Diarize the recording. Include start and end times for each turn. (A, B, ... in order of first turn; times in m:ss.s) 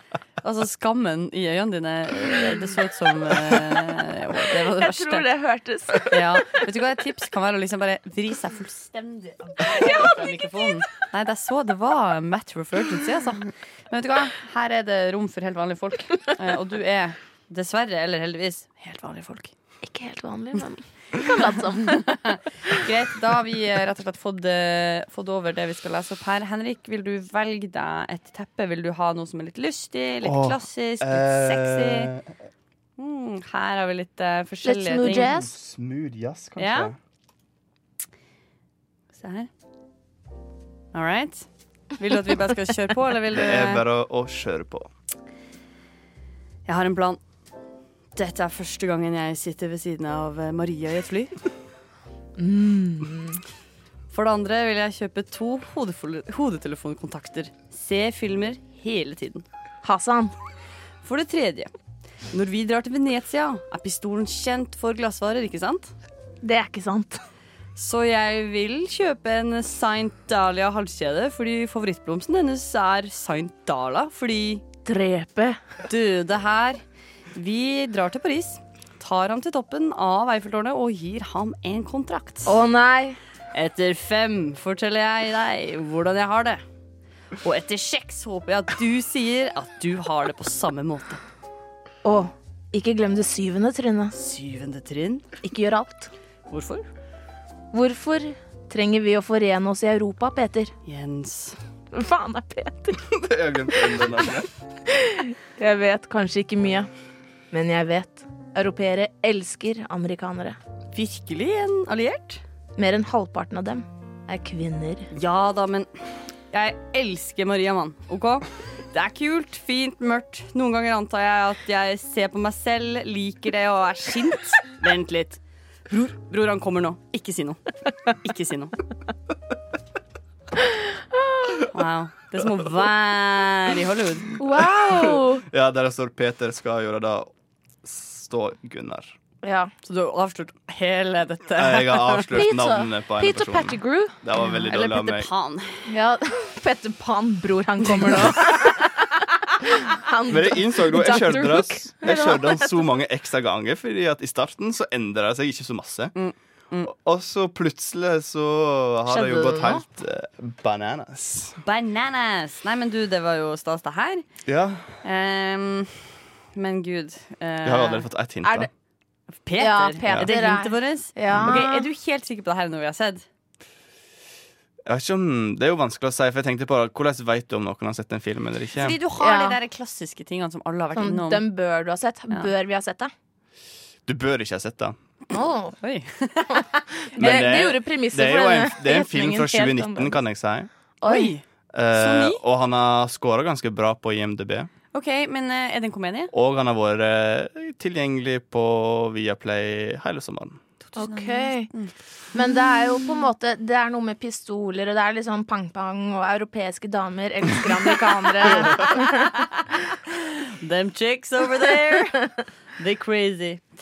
0:00.4-0:05.3 A
0:04.6-0:06.6 B
0:06.0-0:19.5 A
0:09.6-0:10.7 B
0:19.8-0:22.1 B
0:21.2-0:32.1 A
0:30.2-0:32.3 C
0:33.0-0:35.3 A
0:34.6-0:35.5 B
0:35.2-0:37.0 C
0:36.6-0:36.9 A
0:39.1-0:39.5 A
0:40.9-0:41.4 A
0:42.0-0:43.8 A
0:43.3-0:44.9 C
0:46.6-0:47.2 A
0:48.2-0:51.4 A
0:52.4-0:53.4 B
0:54.1-0:59.4 A
0:59.8-1:00.3 B
1:01.0-1:01.7 A
1:02.3-1:05.9 A
1:06.4-1:07.2 B
1:07.8-1:14.6 A
1:14.8-1:15.6 B
1:15.9-1:16.8 A
1:17.3-1:22.5 A
1:22.4-1:23.2 B
1:23.5-1:26.6 A
1:27.4-1:31.2 A
1:32.0-1:34.1 B
1:34.1-1:35.3 A
1:35.4-1:36.1 B
1:36.5-1:36.8 A
1:37.7-1:40.7 B
1:40.8-1:41.6 A
1:41.9-1:43.0 B
1:43.1-1:44.5 C
1:43.7-1:44.0 B
1:44.9-1:46.9 B
1:47.5-1:50.6 B
1:50.9-1:52.4 A
1:52.8-1:55.1 B
1:55.1-1:55.9 A
1:56.5-2:08.8 A
2:11.2-2:11.6 B
2:11.7-2:14.3 A
2:14.4-2:15.4 B
2:14.8-2:17.3 C
2:17.8-2:19.1 C
2:19.4-2:19.7 B
2:19.8-2:22.4 A
2:21.6-2:25.3 C
2:22.3-2:24.2 B
2:24.4-2:25.8 A
2:25.9-2:32.7 B
2:27.9-2:28.6 A
2:30.3-2:36.1 C
2:36.2-2:36.9 A
2:36.8-2:41.6 C
2:39.1-2:39.8 B
2:41.6-2:44.2 A
2:44.4-2:45.0 C
2:45.0-2:48.1 A
2:47.6-2:48.7 C
2:48.4-2:48.7 B
2:49.4-2:53.2 A
2:49.6-2:51.8 B
2:54.8-2:59.0 C
2:58.7-3:01.4 A
2:59.2-2:59.6 B
3:00.9-3:03.1 B
3:04.1-3:05.0 C
3:05.3-3:05.7 B
3:05.8-3:06.7 A
3:06.5-3:10.2 B
3:07.2-3:10.7 C
3:11.0-3:11.3 B
3:11.0-3:11.4 A
3:11.7-3:14.7 C
3:11.9-3:12.4 A
3:14.9-3:16.3 A
3:16.3-3:20.6 C
3:20.9-3:21.9 A
3:21.0-3:21.7 B
3:22.3-3:29.3 B
3:28.4-3:33.6 A